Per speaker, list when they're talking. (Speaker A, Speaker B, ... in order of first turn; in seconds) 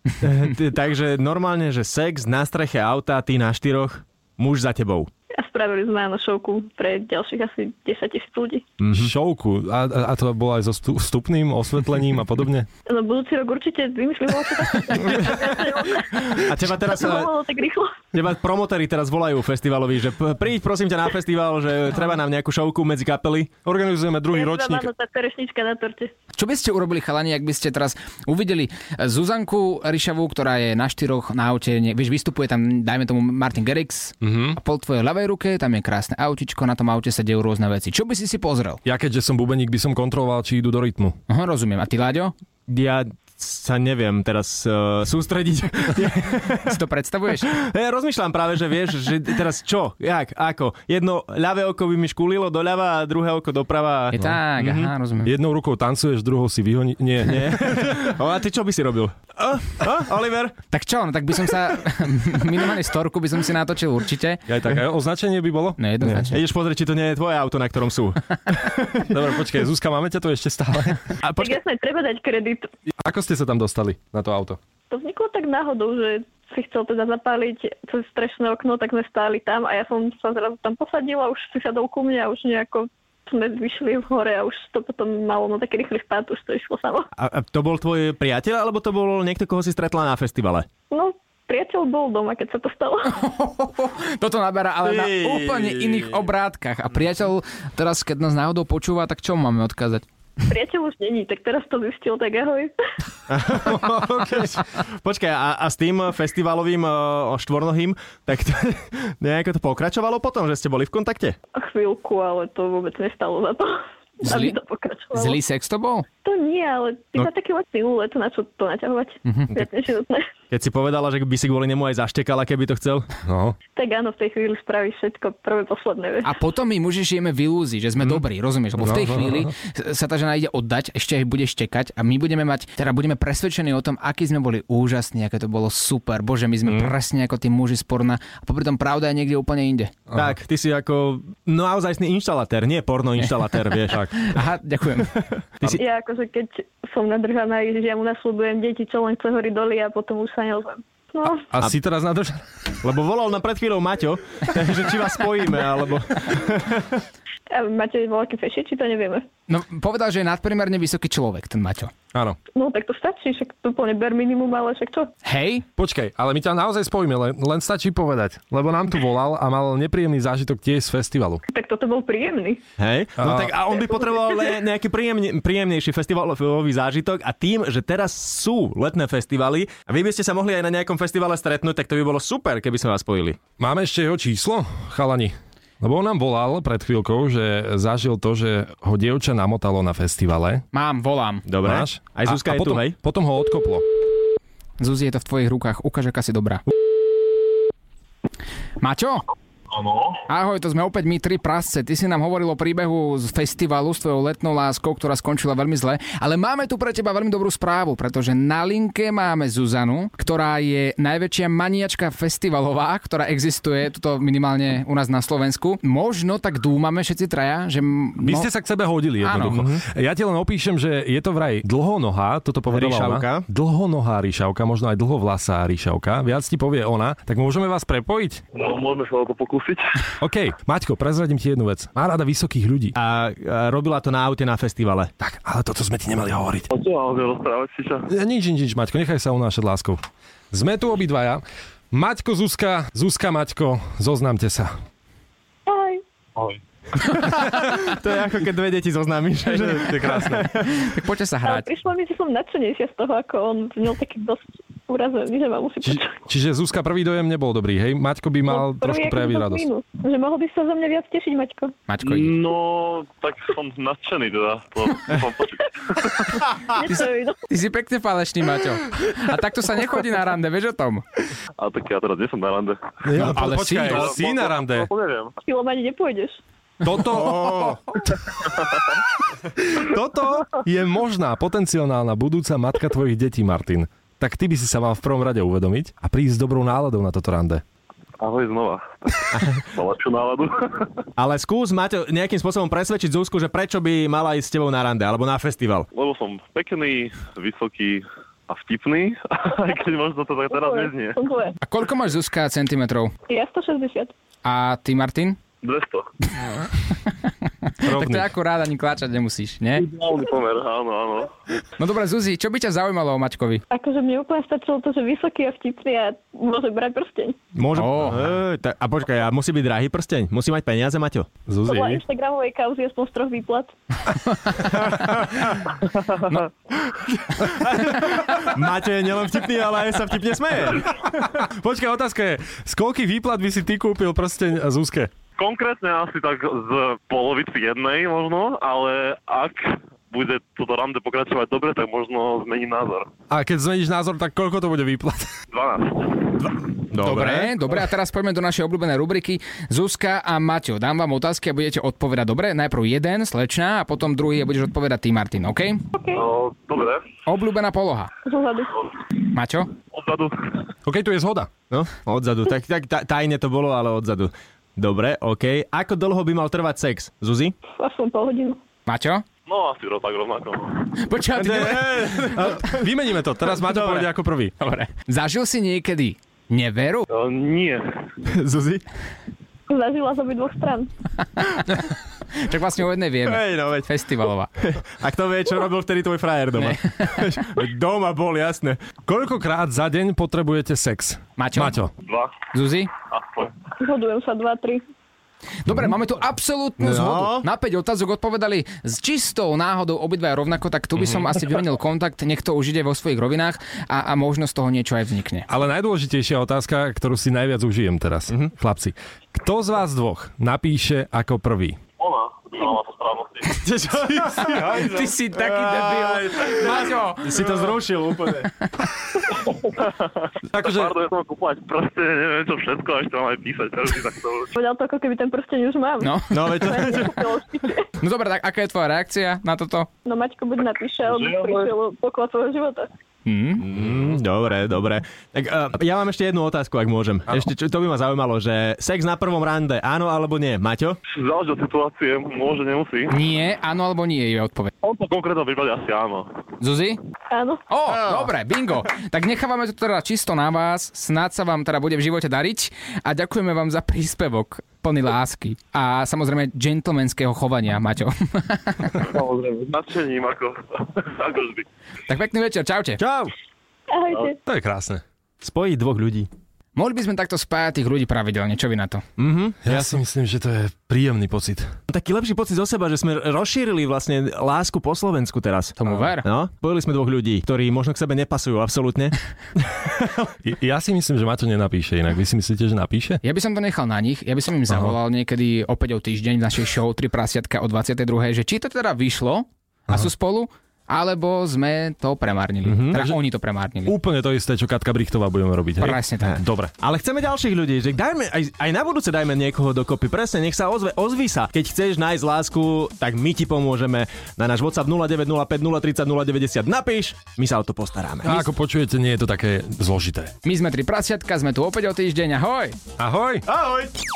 Speaker A: 0.2-5.1, 8.8-9.1, 16.4-17.3, 18.1-23.5, 42.7-46.8, 47.5-54.9, 57.2-60.6, 66.0-69.1, 71.2-71.6, 87.2-90.7, 94.8-96.3, 103.3-111.3, 120.5-123.1, 136.7-136.9, 140.1-144.0, 152.8-157.0, 172.8-183.4, 191.4-193.0, 219.5-219.8, 222.7-223.4, 232.9-235.1, 247.0-250.7, 277.0-277.8, 289.3-289.6, 291.2-295.9, 317.5-321.3, 324.6-325.6, 326.9-330.9, 346.4-347.5, 361.7-367.5, 371.3-372.9, 373.5-374.1, 378.2-378.8, 383.2-383.9, 384.6-388.8, 396.8-397.4, 413.5-418.5, 426.3-427.3, 433.6-441.0, 463.0-463.3, 465.4-466.3, 469.2-469.6, 471.9-480.2, 492.6-493.0, 496.2-508.4, 513.5-513.9
Speaker B: 5.3-8.7, 12.9-18.0, 24.3-26.1, 71.3-72.7, 74.9-87.1, 90.9-93.1, 100.5-102.7, 111.5-115.4, 116.2-120.2, 123.8-126.3, 145.7-151.5, 157.5-159.2, 162.5-165.1, 171.5-172.6, 173.8-174.6, 245.7-246.0, 251.4-256.1, 258.4-261.7, 266.7-267.4, 275.4-276.4, 300.5-301.5, 303.3-304.1, 313.7-317.4, 321.6-323.7, 355.9-356.2, 358.2-358.9, 367.8-368.6, 379.7-380.9, 393.8-394.8, 424.5-427.8, 430.1-432.9, 447.3-447.6, 463.9-464.4
Speaker C: 8.9-12.7, 23.6-24.9, 34.2-34.6, 38.8-41.1, 55.2-58.0, 64.5-65.8, 69.1-71.0, 73.0-74.6, 123.2-123.5, 128.8-129.5, 140.1-140.3, 151.5-152.4, 165.8-171.4, 173.2-173.5, 183.6-190.6, 191.6-193.8, 218.2-228.4, 230.2-232.9, 235.2-236.7, 238.1-240.0, 240.5-244.7, 249.4-250.4, 255.8-259.6, 273.0-274.9, 276.8-277.8, 279.6-287.6, 307.8-308.3, 321.5-322.0, 331.0-335.1, 343.3-345.3, 360.8-361.5, 372.4-374.5, 389.1-391.9, 395.7-395.9, 405.5-411.8, 414.2-414.9, 420.5-420.9, 464.4-465.0, 469.6-471.6, 480.4-483.2, 484.7-484.9, 493.9-496.7, 508.2-510.3, 513.0-513.4
Speaker D: 26.4-38.8, 41.3-42.3, 46.6-47.5, 54.1-55.3, 60.7-64.4, 65.8-66.4, 93.1-100.0, 114.2-114.6, 115.1-116.0, 119.2-119.5, 126.2-139.9, 143.9-145.2, 159.5-161.9, 165.2-165.6, 190.7-191.4, 194.8-196.6, 198.8-199.2, 200.3-218.5, 219.2-219.6, 250.6-251.7, 261.9-262.3, 266.8-271.0, 273.2-274.1, 301.6-303.1, 304.4-305.4, 307.8-309.9, 311.8-313.6, 317.7-318.2, 324.5-324.8, 347.0-355.8, 357.2-358.1, 359.3-359.7, 368.9-369.2, 371.0-372.1, 374.6-377.1, 381.4-384.5, 386.6-387.3, 391.4-391.8, 392.5-392.9, 395.6-405.5, 414.4-417.6, 426.0-426.9, 428.0-429.9, 433.2-433.6, 443.1-444.7, 446.6-447.0, 447.7-459.1, 462.1-463.0, 466.7-469.0, 475.8-476.2, 483.2-493.9, 495.8-496.4, 510.4-512.8
Speaker E: 199.7-200.1, 228.5-230.0, 236.7-238.1, 246.3-246.6, 262.0-266.4, 271.6-275.3, 278.5-278.8, 288.2-290.9, 295.9-301.2, 305.6-306.1, 309.8-311.3, 325.8-326.4, 335.4-343.1, 345.5-346.3, 356.1-357.0, 359.9-360.6, 369.5-370.9, 377.1-377.8, 392.1-392.3, 393.1-393.6, 412.0-413.6, 419.4-424.5, 431.1-431.7, 441.1-443.1, 444.8-446.3, 459.0-461.6